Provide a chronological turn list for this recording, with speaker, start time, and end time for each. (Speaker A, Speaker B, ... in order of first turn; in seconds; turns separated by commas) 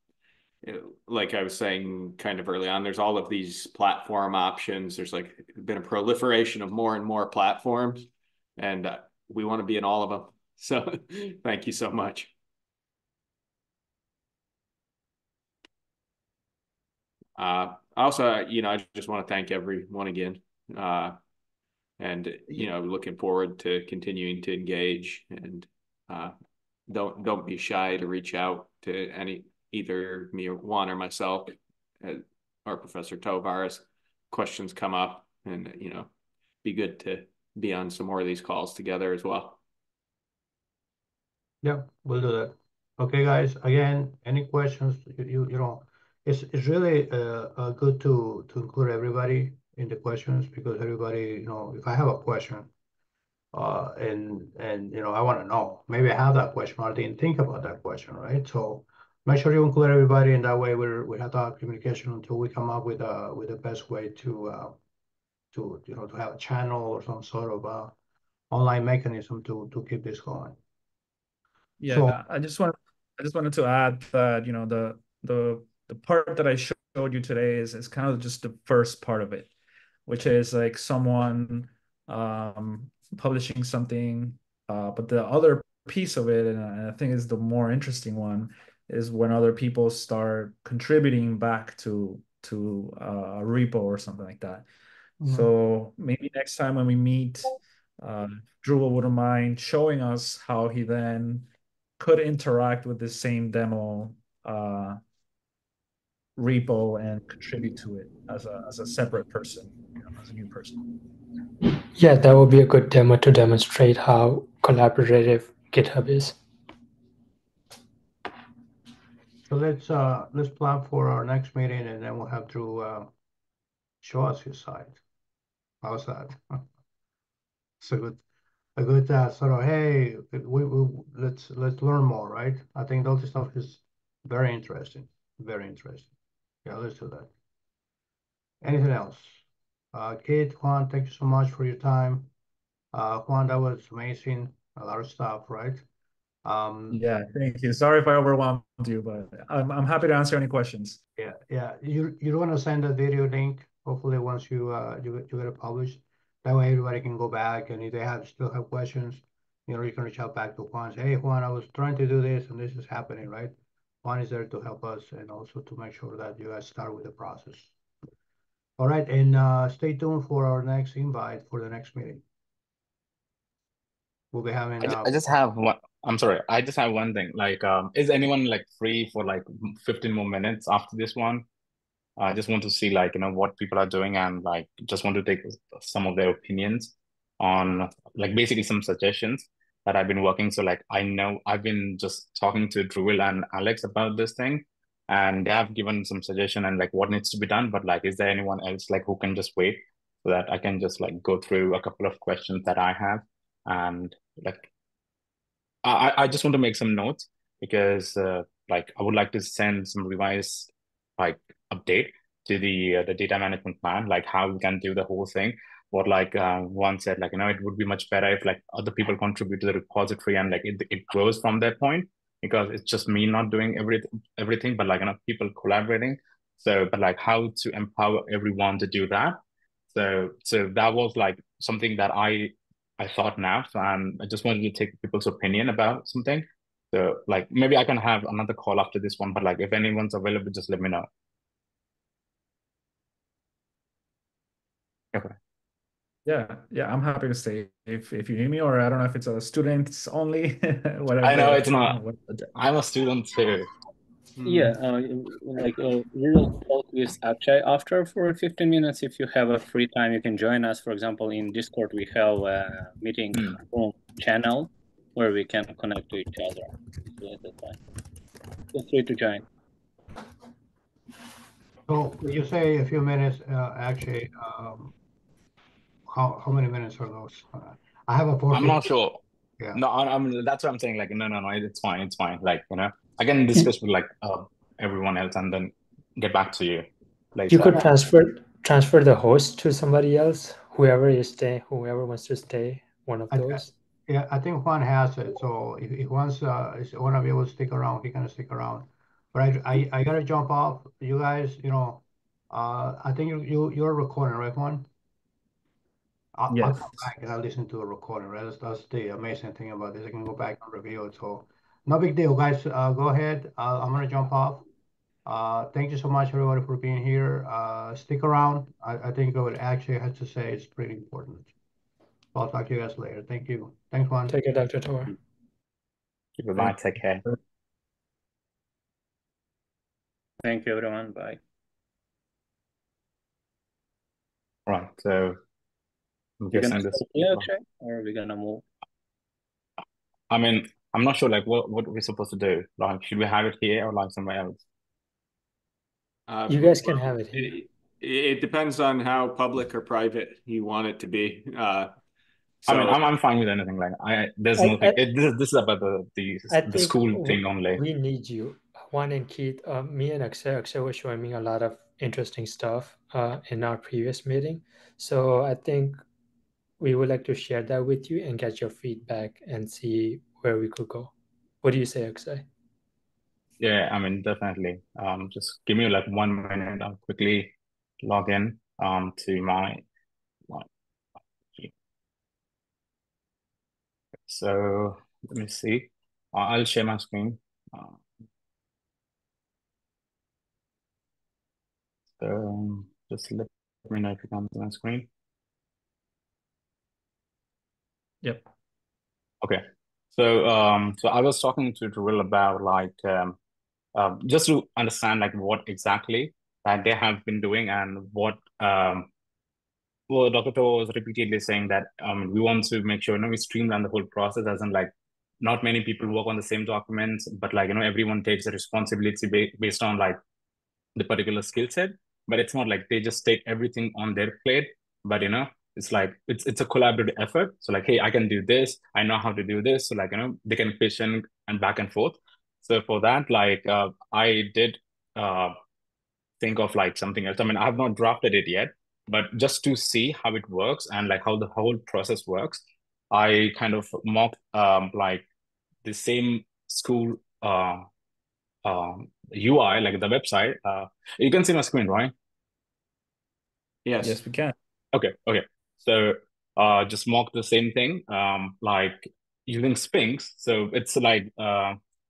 Speaker A: 0.6-12.3, Speaker A: 17.4-21.2, Speaker A: 22.0-26.3, Speaker A: 26.9-36.1, Speaker A: 36.6-39.6, Speaker B: 41.6-52.7, Speaker B: 53.5-64.8, Speaker B: 65.5-67.9, Speaker B: 68.5-70.6, Speaker C: 71.8-79.5, Speaker B: 71.9-72.2, Speaker C: 80.1-94.6, Speaker B: 95.2-95.5, Speaker C: 95.2-101.5, Speaker C: 102.0-105.0, Speaker C: 106.4-110.8, Speaker D: 112.0-116.4, Speaker B: 119.5-123.1, Speaker B: 124.0-125.0, Speaker B: 125.8-126.7, Speaker B: 127.8-128.2, Speaker B: 128.8-136.1, Speaker B: 136.6-137.3, Speaker B: 138.6-139.4, Speaker B: 139.9-142.3, Speaker B: 142.9-145.8, Speaker B: 146.4-147.0, Speaker C: 146.9-151.0, Speaker B: 151.2-167.7, Speaker B: 168.8-172.2, Speaker B: 174.3-175.2, Speaker E: 174.8-181.4, Speaker E: 182.2-204.7, Speaker E: 205.8-229.4, Speaker E: 229.9-241.1, Speaker C: 246.2-252.2, Speaker E: 251.2-252.0, Speaker E: 252.5-253.7, Speaker A: 254.4-254.7, Speaker F: 254.4-267.8, Speaker F: 268.7-269.4, Speaker B: 271.9-274.9, Speaker B: 276.1-278.9, Speaker E: 278.5-279.2, Speaker E: 279.7-287.9, Speaker D: 287.5-293.7, Speaker B: 293.3-304.9, Speaker B: 306.3-314.6, Speaker C: 306.5-307.1, Speaker B: 315.2-321.5, Speaker B: 322.3-324.3, Speaker D: 324.3-325.1, Speaker E: 326.4-327.2, Speaker F: 330.4-331.4, Speaker E: 334.7-335.4, Speaker E: 336.4-337.5, Speaker F: 336.5-338.6, Speaker E: 340.3-344.6, Speaker A: 346.3-351.9, Speaker D: 346.5-347.6, Speaker A: 352.6-353.0, Speaker E: 352.6-357.8, Speaker D: 354.6-355.0, Speaker D: 356.5-366.0, Speaker D: 366.8-372.5, Speaker E: 373.6-379.8, Speaker E: 384.3-388.0, Speaker E: 392.2-395.1, Speaker E: 399.4-403.4, Speaker E: 403.9-409.1, Speaker E: 410.1-420.2, Speaker E: 420.9-435.5, Speaker E: 436.4-445.2, Speaker E: 445.8-447.9, Speaker E: 448.6-452.1, Speaker A: 453.8-454.2, Speaker C: 454.0-454.5, Speaker E: 454.9-461.8